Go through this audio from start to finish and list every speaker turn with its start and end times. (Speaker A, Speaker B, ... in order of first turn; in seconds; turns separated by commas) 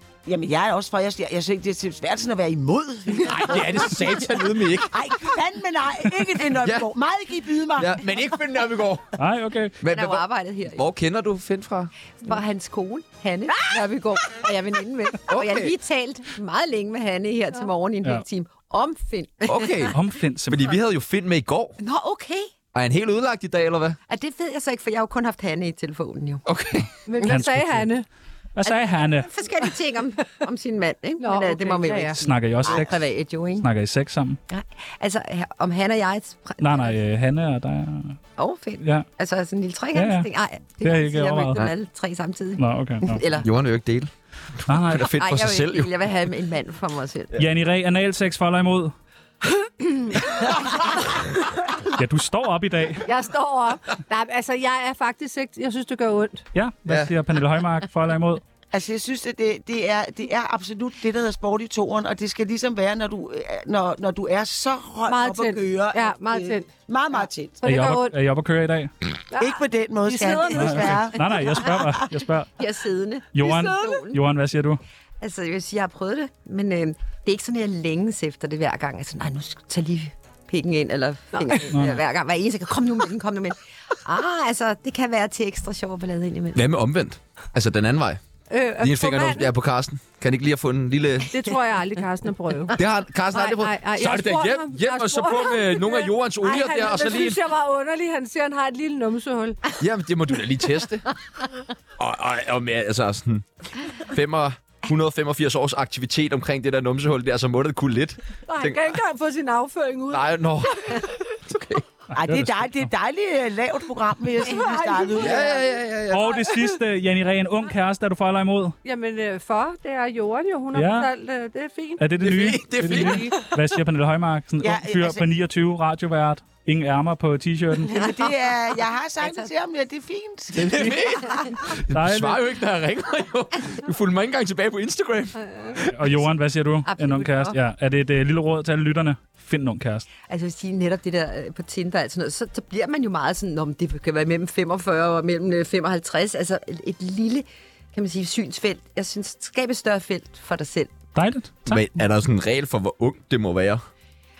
Speaker A: 0.2-8.4, Speaker B: 3.2-4.9, Speaker B: 6.6-6.9, Speaker B: 7.8-9.1, Speaker C: 9.2-9.8, Speaker B: 9.8-11.9, Speaker D: 9.8-10.8, Speaker D: 12.2-19.9, Speaker B: 15.3-15.7, Speaker B: 19.4-19.9, Speaker C: 19.9-20.7, Speaker B: 20.5-21.8, Speaker D: 21.8-22.5, Speaker B: 22.7-24.0, Speaker D: 24.1-26.4, Speaker B: 26.4-26.9, Speaker E: 27.1-28.0, Speaker C: 27.2-27.9, Speaker C: 28.5-29.3, Speaker D: 28.6-33.7, Speaker E: 31.2-32.2, Speaker C: 32.2-33.1, Speaker C: 33.6-34.4, Speaker D: 34.5-37.0, Speaker C: 36.6-38.2, Speaker D: 38.4-43.5, Speaker C: 38.8-39.1, Speaker C: 39.9-40.3, Speaker C: 40.8-41.6, Speaker C: 42.6-43.2, Speaker B: 43.4-45.9, Speaker C: 44.7-45.1, Speaker D: 45.1-47.4, Speaker C: 47.4-48.9, Speaker C: 51.9-53.1, Speaker E: 53.0-56.4, Speaker C: 56.5-58.4, Speaker B: 56.9-57.1, Speaker A: 58.7-67.6, Speaker E: 65.0-66.7, Speaker E: 67.6-68.1, Speaker C: 67.6-68.9, Speaker E: 69.3-71.5, Speaker A: 69.3-71.8, Speaker C: 70.5-72.5, Speaker D: 72.6-74.2, Speaker C: 73.3-74.8, Speaker D: 75.2-86.6, Speaker C: 81.7-82.0, Speaker B: 86.5-88.2, Speaker E: 88.5-89.5, Speaker B: 88.8-91.3, Speaker E: 91.2-92.8, Speaker B: 92.7-97.4, Speaker E: 93.3-99.6, Speaker B: 99.8-101.0, Speaker B: 102.0-108.9, Speaker E: 108.5-110.3, Speaker B: 110.1-111.8, Speaker C: 112.1-112.8, Speaker A: 112.1-115.5, Speaker E: 114.4-116.7, Speaker B: 115.2-116.3, Speaker C: 116.1-118.8, Speaker E: 118.8-122.0, Speaker C: 120.7-121.1, Speaker C: 122.0-127.9, Speaker B: 122.2-123.5, Speaker A: 124.6-125.2, Speaker A: 127.9-131.4, Speaker D: 127.9-128.3, Speaker D: 129.2-129.5, Speaker B: 130.5-135.9, Speaker C: 131.9-132.4, Speaker C: 135.9-140.1, Speaker D: 136.8-137.6, Speaker D: 140.3-151.0, Speaker C: 151.1-151.8, Speaker B: 151.7-153.8